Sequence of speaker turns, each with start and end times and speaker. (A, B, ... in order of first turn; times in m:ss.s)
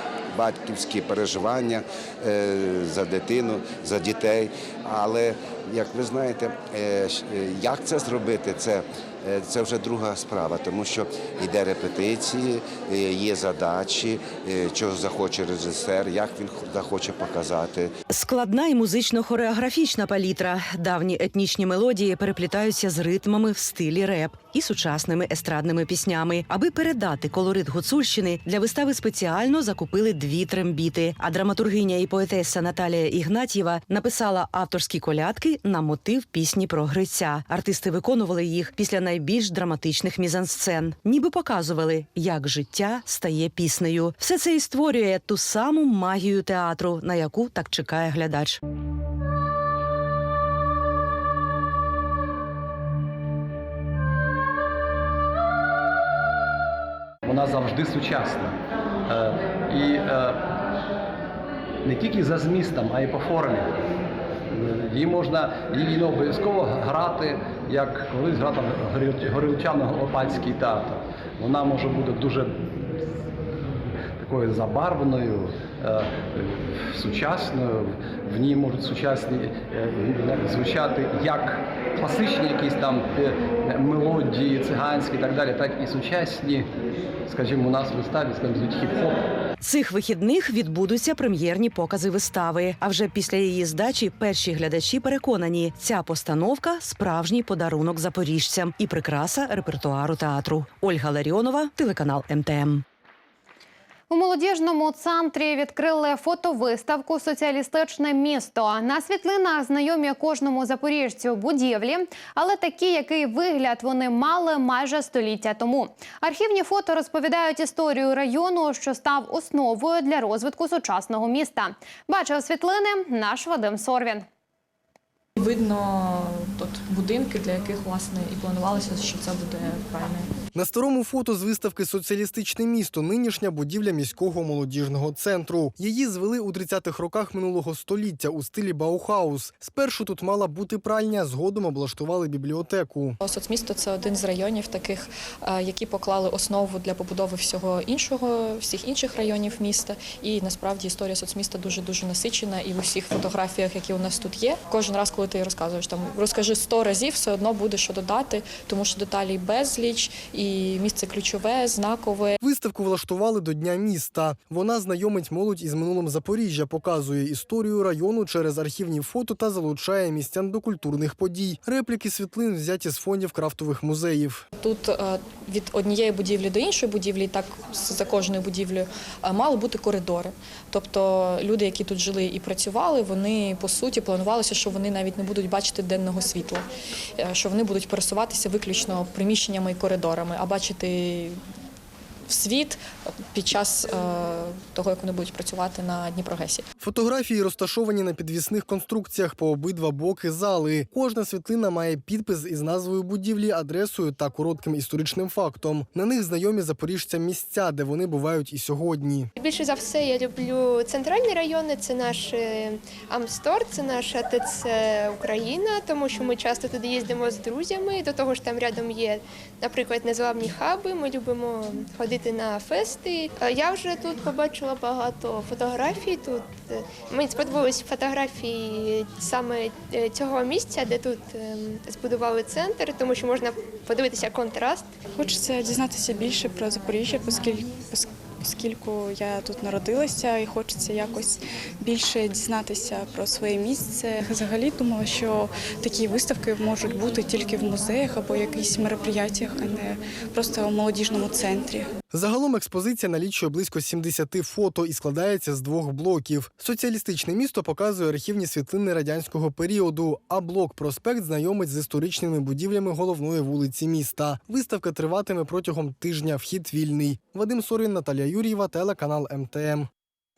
0:00.4-0:17.9 A
0:18.1-0:48.6 B
0:57.2-1:00.5 C
1:01.8-1:03.8 C
1:04.5-1:12.9 C
1:14.2-1:26.7 C
1:27.3-1:29.3 C
1:29.6-1:42.8 B
1:44.1-2:04.3 D
2:05.4-2:10.3 E
2:10.5-2:23.2 F
2:23.2-2:42.4 E
2:42.4-2:54.4 F
2:54.6-3:06.7 E
3:07.2-3:11.4 E
3:12.3-3:12.8 E
3:13.3-3:16.6 E
3:16.8-3:29.3 F
3:29.4-3:54.9 G
3:55.2-4:11.9 H
4:12.1-4:29.9 F